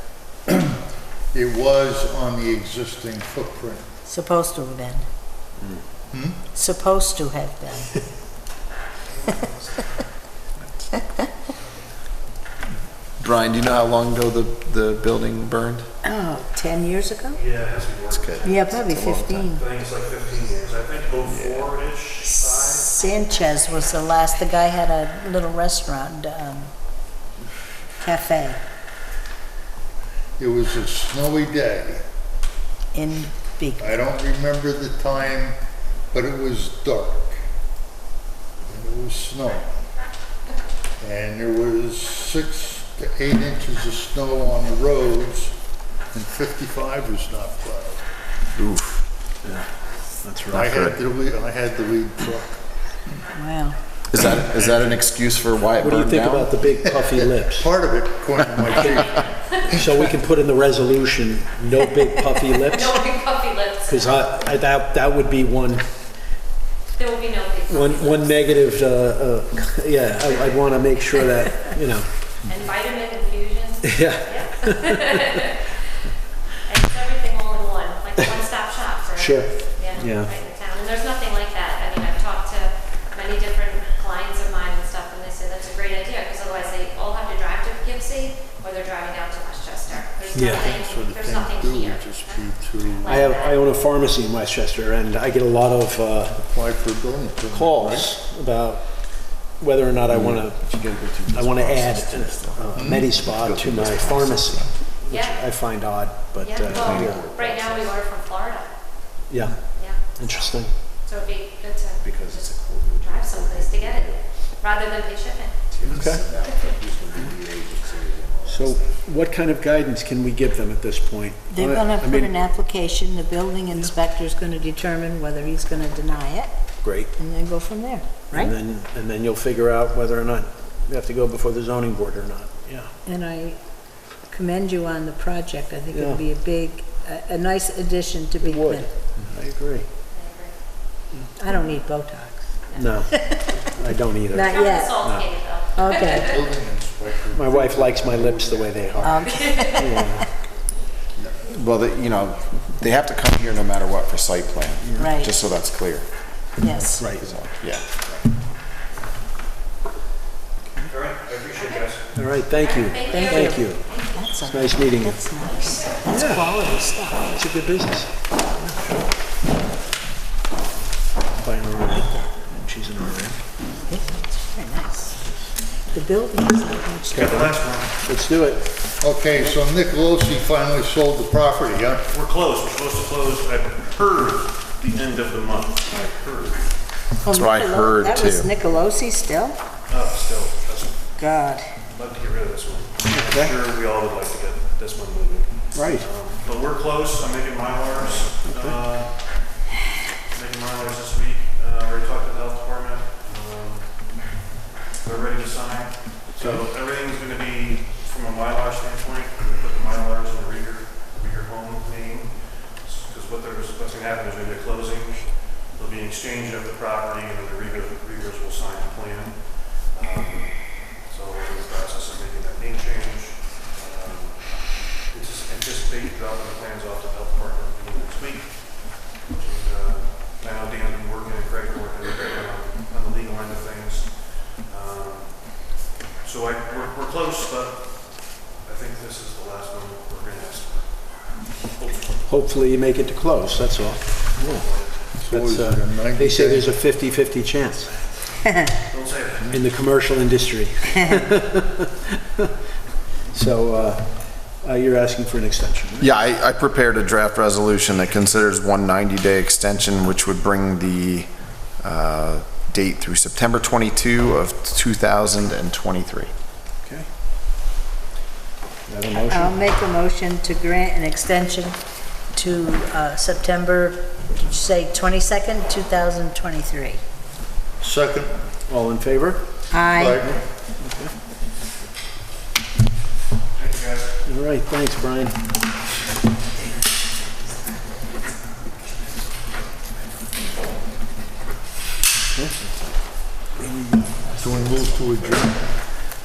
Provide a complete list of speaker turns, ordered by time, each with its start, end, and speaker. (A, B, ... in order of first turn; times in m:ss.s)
0:00.4-0:00.8 A
0:01.3-0:03.8 A
0:04.0-0:05.0 B
0:06.1-0:06.4 A
0:06.5-0:07.9 B
0:13.2-0:15.8 C
0:16.0-0:17.4 B
0:17.3-0:18.5 D
0:18.1-0:19.5 C
0:18.4-0:19.6 B
0:19.5-0:22.9 D
0:21.2-0:21.7 C
0:22.4-0:26.7 B
0:28.0-0:28.6 B
0:30.4-0:32.0 A
0:32.9-0:34.0 B
0:33.8-0:35.6 A
0:36.1-0:37.4 A
0:38.7-0:39.7 A
0:41.0-0:45.5 A
0:46.1-0:48.0 A
0:48.6-0:49.0 C
0:49.4-0:50.6 E
0:50.5-0:51.0 C
0:50.5-0:52.6 A
0:53.3-0:53.8 B
0:54.1-0:56.6 C
0:54.3-0:55.0 A
0:55.8-0:57.7 E
0:56.9-0:59.7 A
0:59.7-1:03.0 E
1:02.5-1:04.3 F
1:03.9-1:05.8 E
1:06.9-1:08.6 F
1:07.7-1:12.1 E
1:10.2-1:11.4 F
1:12.4-1:15.8 F
1:13.8-1:14.8 E
1:16.6-1:33.7 F
1:19.2-1:20.3 E
1:30.3-1:30.6 E
1:30.4-1:33.2 A
1:33.1-1:36.3 E
1:36.4-1:38.1 A
1:37.5-1:38.8 E
1:39.5-1:40.7 E
1:40.1-1:44.7 C
1:41.2-1:47.3 E
1:42.8-1:43.0 A
1:45.1-1:45.4 F
1:46.4-1:48.7 F
1:46.6-1:48.0 C
1:49.3-1:49.6 E
1:49.7-1:55.6 F
1:50.2-1:50.7 E
1:52.0-1:54.2 C
1:55.7-1:58.9 C
1:55.9-1:56.2 E
1:58.4-2:02.3 E
2:01.5-2:08.5 B
2:06.8-2:07.1 E
2:08.3-2:12.9 E
2:13.0-2:13.6 B
2:14.3-2:18.9 B
2:15.9-2:16.2 E
2:18.4-2:19.9 E
2:20.1-2:20.6 F
2:21.4-2:23.6 B
2:22.8-2:23.2 E
2:23.8-2:25.3 E
2:24.3-2:25.0 B
2:24.4-2:26.4 F
2:25.7-2:26.3 B
2:26.0-2:29.3 A
2:27.3-2:29.2 E
2:29.0-2:30.3 B
2:29.3-2:29.9 F
2:29.8-2:30.2 E
2:31.2-2:31.4 A
2:31.5-2:36.0 C
2:35.0-2:35.3 B
2:36.6-2:37.2 B
2:37.0-2:37.2 E
2:37.2-2:37.8 C
2:40.9-2:42.0 D
2:41.5-2:42.0 F
2:42.1-2:43.8 E
2:42.6-2:44.3 F
2:43.1-2:47.3 B
2:44.4-2:45.2 E
2:45.6-2:46.0 F
2:46.0-2:46.5 E
2:47.3-2:49.0 E
2:51.4-2:53.4 E
2:51.9-2:52.3 B
2:53.9-2:55.2 B
2:55.9-2:57.5 B
2:57.1-2:58.6 E
2:57.1-2:58.0 D
2:59.0-3:02.1 A
3:02.1-3:06.7 D
3:07.2-3:09.6 B
3:07.3-3:08.5 C
3:09.9-3:11.1 D
3:11.2-3:11.7 B
3:11.9-3:19.5 D
3:13.1-3:13.7 E
3:15.7-3:16.1 E
3:18.4-3:18.9 E
3:20.3-3:24.4 D
3:25.0-4:02.0 D
3:26.4-3:26.7 E
4:02.2-4:08.0 E
4:04.4-4:05.1 D
4:05.2-4:06.7 A
4:08.9-4:09.5 D
4:09.5-4:12.5 E
4:13.3-4:16.1 E
4:16.0-4:26.3 C
4:26.8-4:27.1 E
4:28.9-4:29.7 E
4:29.1-4:31.8 B
4:32.3-4:37.0 B
4:37.8-4:38.4 A
4:38.7-4:39.5 E
4:39.7-4:40.2 B
4:39.9-4:40.4 A
4:40.3-4:41.1 E
4:43.6-4:44.1 D
4:44.2-4:45.4 E
4:52.3-4:52.6 E
4:53.5-4:54.8 E
4:54.4-4:55.7 A